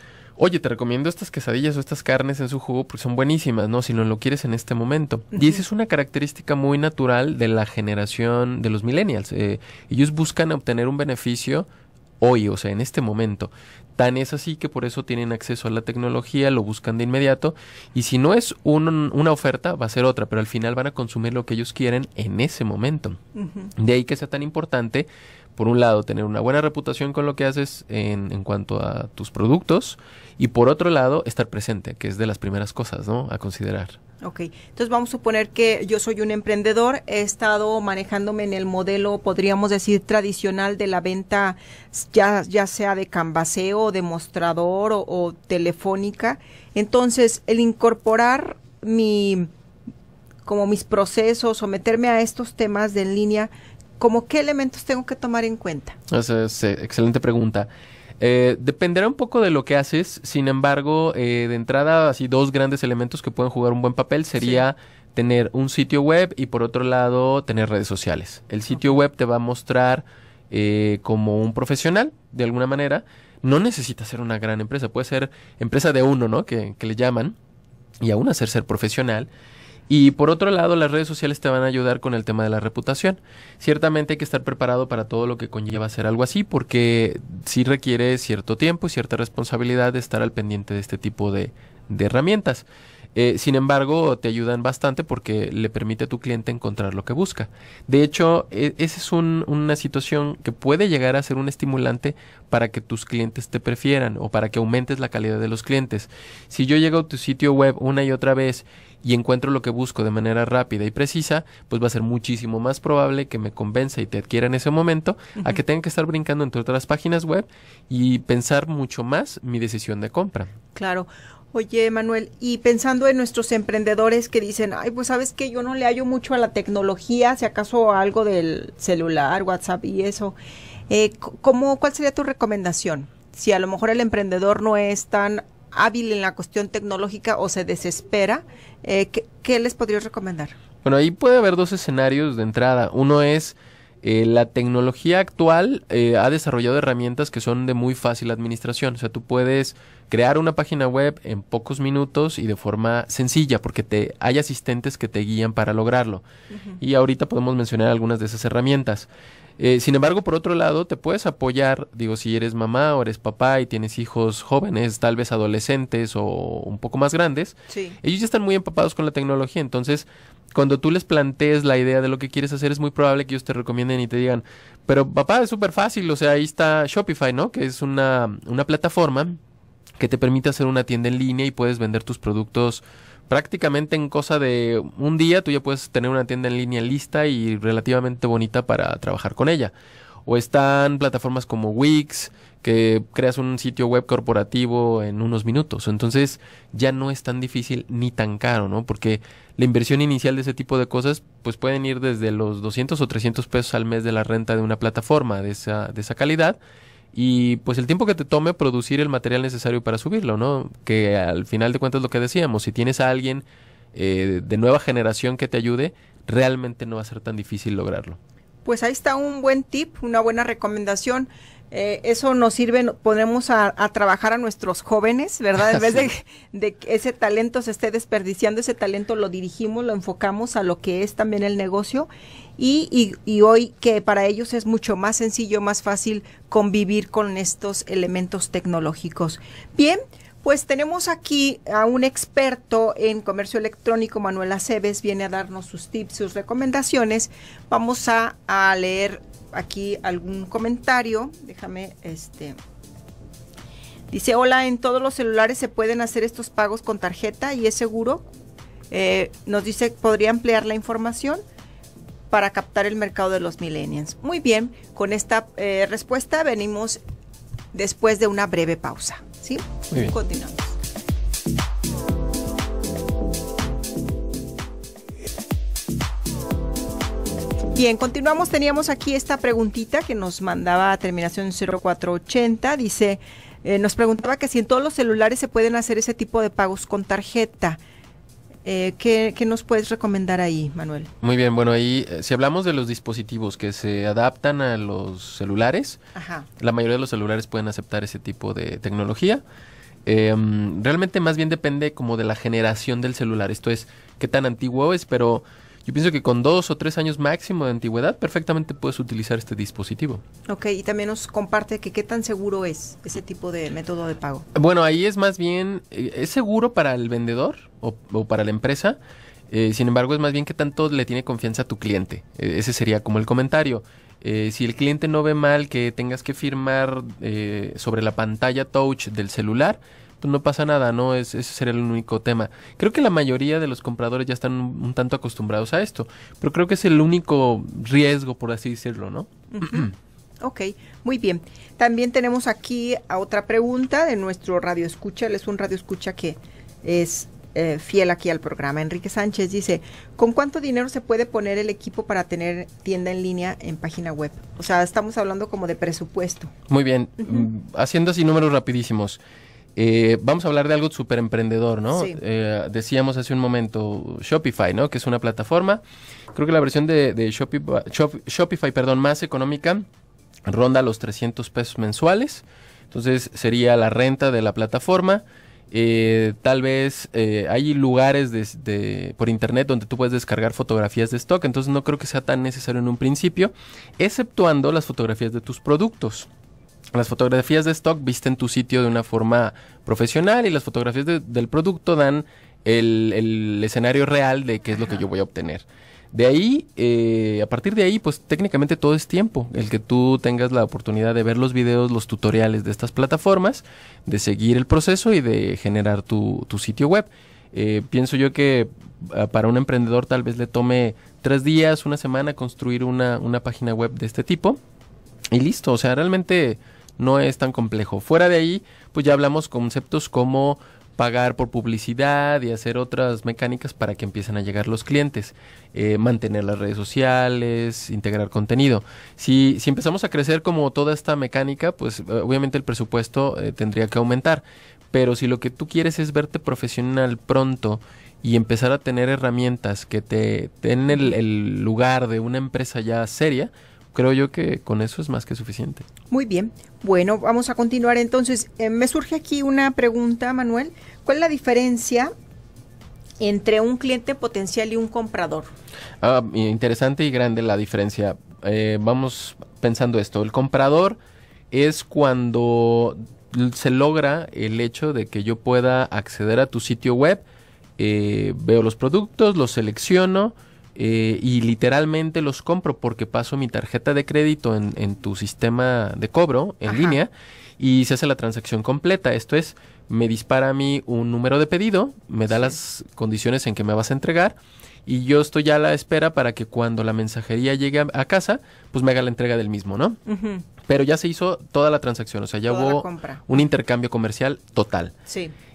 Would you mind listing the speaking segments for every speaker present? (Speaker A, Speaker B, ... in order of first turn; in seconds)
Speaker A: 0.4-11.7, 12.2-23.2, 23.8-34.0, 56.1-57.7, 58.2-77.3, 78.0-79.3, 79.9-120.5, 140.8-156.2, 156.8-159.1, 159.6-179.4, 180.0-189.7, 190.3-206.6, 207.1-218.2, 291.2-296.0, 296.6-299.4, 300.1-310.2, 314.5-319.0, 319.5-339.9, 356.7-359.2, 359.8-365.8, 366.3-369.9, 370.5-386.3, 386.9-414.6, 415.3-445.9, 456.0-461.0, 461.5-467.2, 467.8-490.0, 490.7-494.9
Speaker B: 23.4-23.7, 34.2-49.5, 50.5-56.0, 120.8-130.4, 130.9-140.6, 156.5-156.8, 167.7-168.0, 218.7-252.6, 254.1-258.3, 258.9-261.4, 262.3-267.0, 267.7-270.8, 277.7-287.8, 288.7-291.1, 296.1-296.5, 310.5-314.5, 339.5-339.9, 340.4-356.5, 361.9-362.2, 446.1-452.1, 453.2-455.5, 476.7-477.0, 490.1-490.4, 492.5-493.4, 495.1-495.3